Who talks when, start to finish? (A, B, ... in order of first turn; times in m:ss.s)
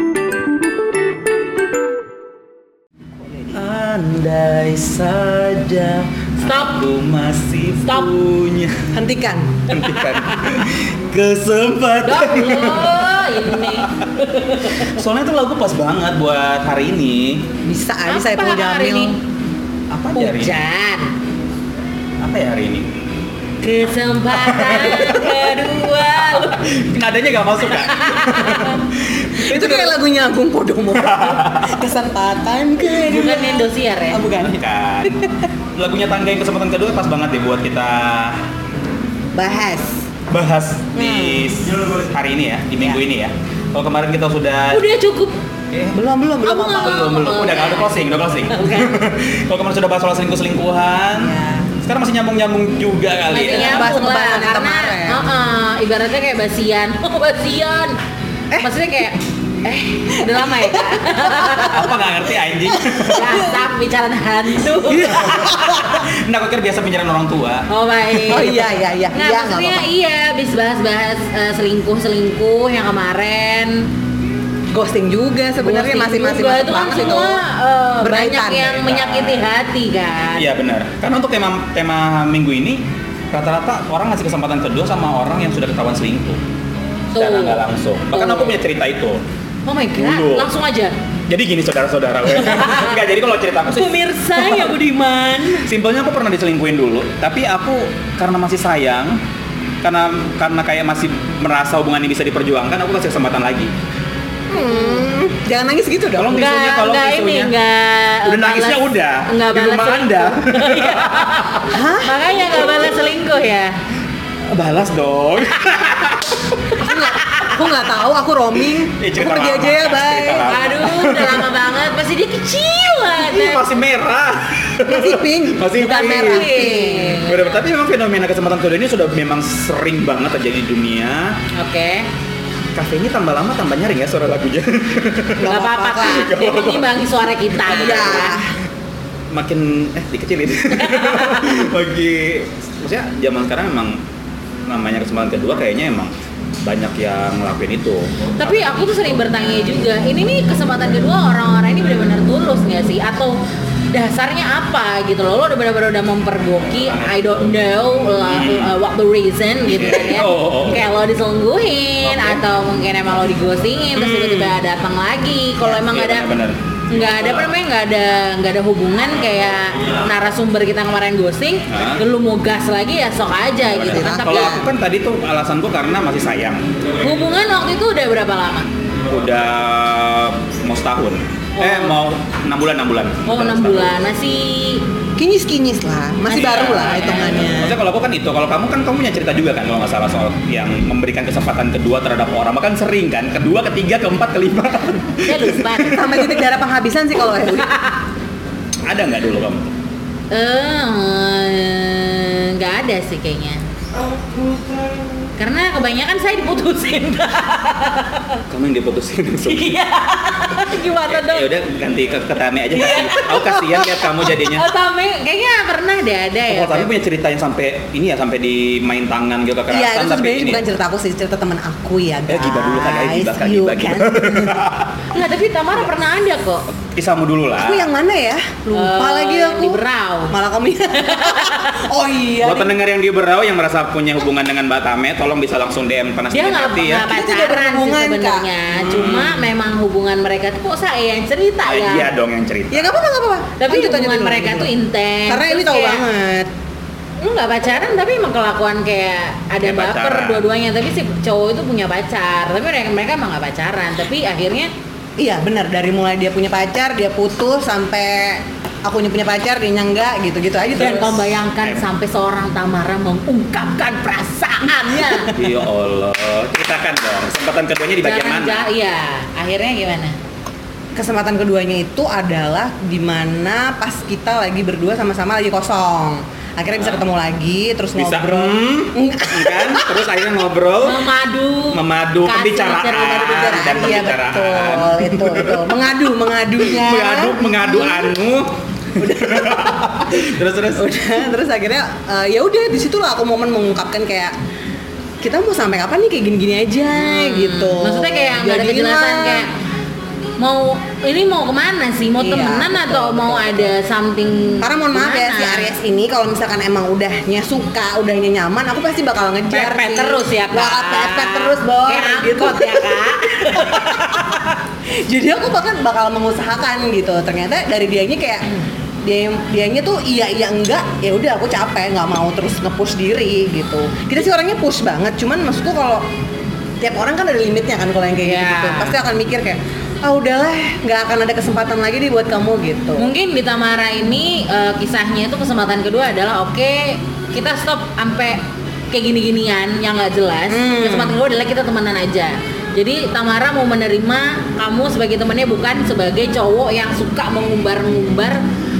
0:03.5-0:08.9 A
0:06.4-0:06.8 B
0:08.9-0:09.7 C
0:09.7-0:17.5 A
0:10.0-0:10.4 B
0:12.0-0:14.9 B
0:17.6-0:19.1 C
0:18.1-0:19.2 B
0:19.9-0:20.6 A
0:20.2-0:21.1 B
0:22.2-0:22.9 A
0:23.6-0:26.6 B
0:24.3-0:30.0 A
0:27.7-0:28.8 B
0:29.4-0:35.5 C
0:31.0-0:31.8 A
0:32.9-0:34.2 B
0:34.5-0:35.2 A
0:35.8-0:38.4 A
0:39.3-0:40.1 C
0:40.3-0:44.8 A
0:41.0-0:41.7 C
0:44.7-0:45.4 B
0:45.7-0:46.0 A
0:45.9-0:47.0 C
0:46.4-0:49.0 B
0:46.6-0:53.9 A
0:51.2-0:51.7 C
0:53.3-0:58.0 B
0:53.4-0:55.2 C
0:58.6-1:02.0 B
1:00.1-1:02.1 C
1:01.7-1:03.4 A
1:02.7-1:03.6 C
1:03.1-1:06.0 B
1:04.9-1:06.0 C
1:05.0-1:07.7 A
1:07.7-1:13.9 B
1:08.2-1:09.9 C
1:14.7-1:17.4 C
1:15.6-1:20.5 B
1:16.8-1:17.3 A
1:18.0-1:18.8 C
1:18.7-1:19.5 A
1:20.4-1:26.4 A
1:27.1-1:28.6 B
1:27.2-1:29.2 A
1:29.7-1:31.0 B
1:30.0-1:30.5 A
1:31.3-1:34.8 A
1:32.4-1:33.0 B
1:33.7-1:35.7 B
1:35.5-1:39.2 A
1:39.8-1:43.7 A
1:44.5-1:46.4 C
1:46.2-1:47.5 A
1:46.3-1:53.8 B
1:48.3-1:51.7 A
1:51.7-1:52.7 C
1:54.5-1:56.8 A
1:56.8-2:00.5 C
1:56.9-1:57.6 B
1:58.9-2:01.5 A
2:00.5-2:03.6 B
2:03.2-2:11.4 A
2:04.8-2:07.2 C
2:05.8-2:07.6 B
2:11.6-2:12.1 B
2:12.8-2:17.0 A
2:15.4-2:16.3 C
2:15.4-2:18.4 B
2:17.6-2:18.4 A
2:17.7-2:18.6 C
2:19.3-2:24.0 A
2:20.8-2:21.5 B
2:24.7-2:26.1 A
2:26.6-2:28.8 A
2:28.4-2:33.4 B
2:33.9-2:46.3 B
2:36.8-2:37.6 A
2:38.2-2:38.7 A
2:39.7-2:40.9 A
2:42.0-2:42.5 A
2:44.0-2:44.6 C
2:45.6-2:47.5 A
2:46.9-2:54.6 B
2:51.7-2:52.0 A
2:53.7-2:57.0 A
2:53.8-2:54.7 C
2:57.0-2:58.7 B
2:59.1-3:04.0 A
3:01.6-3:02.0 B
3:03.3-3:04.8 B
3:05.2-3:07.8 C
3:06.3-3:16.4 A
3:06.6-3:07.5 B
3:15.2-3:16.2 B
3:15.8-3:17.7 C
3:17.6-3:18.0 B
3:18.8-3:19.8 A
3:20.3-3:23.6 B
3:24.4-3:25.1 A
3:25.4-3:28.4 B
3:28.5-3:29.8 A
3:29.4-3:31.5 B
3:30.9-3:34.7 A
3:32.7-3:36.9 B
3:36.5-3:40.6 A
3:39.7-3:44.6 C
3:42.3-3:45.0 A
3:45.1-3:46.7 B
3:46.9-3:47.9 A
3:47.6-3:52.7 C
3:48.7-3:50.4 B
3:51.0-3:51.9 B
3:52.4-3:57.1 A
3:56.3-4:02.1 B
3:57.1-3:58.5 C
3:58.8-3:59.5 A
4:01.6-4:02.9 A
4:02.7-4:04.7 C
4:03.6-4:06.0 B
4:05.3-4:06.5 C
4:07.2-4:14.7 B
4:09.6-4:10.4 A
4:15.2-4:21.2 C
4:20.7-4:25.3 B
4:24.8-4:25.4 C
4:25.3-4:28.7 A
4:28.0-4:30.2 B
4:31.0-4:40.1 C
4:36.7-4:37.0 A
4:38.0-4:41.1 A
4:40.8-4:43.7 B
4:41.7-4:46.0 A
4:42.9-4:48.1 C
4:46.6-4:50.9 A
4:49.0-4:50.2 C
4:50.7-4:54.4 C
4:55.2-4:59.5 C
4:56.9-4:59.5 B
5:00.4-5:05.8 B
5:02.2-5:03.7 C
5:04.6-5:18.5 C
5:09.5-5:14.3 B
5:19.0-5:26.0 C
5:26.8-5:33.1 C
5:28.2-5:29.0 B
5:33.0-5:38.4 B
5:38.9-5:48.4 B
5:40.5-5:41.2 C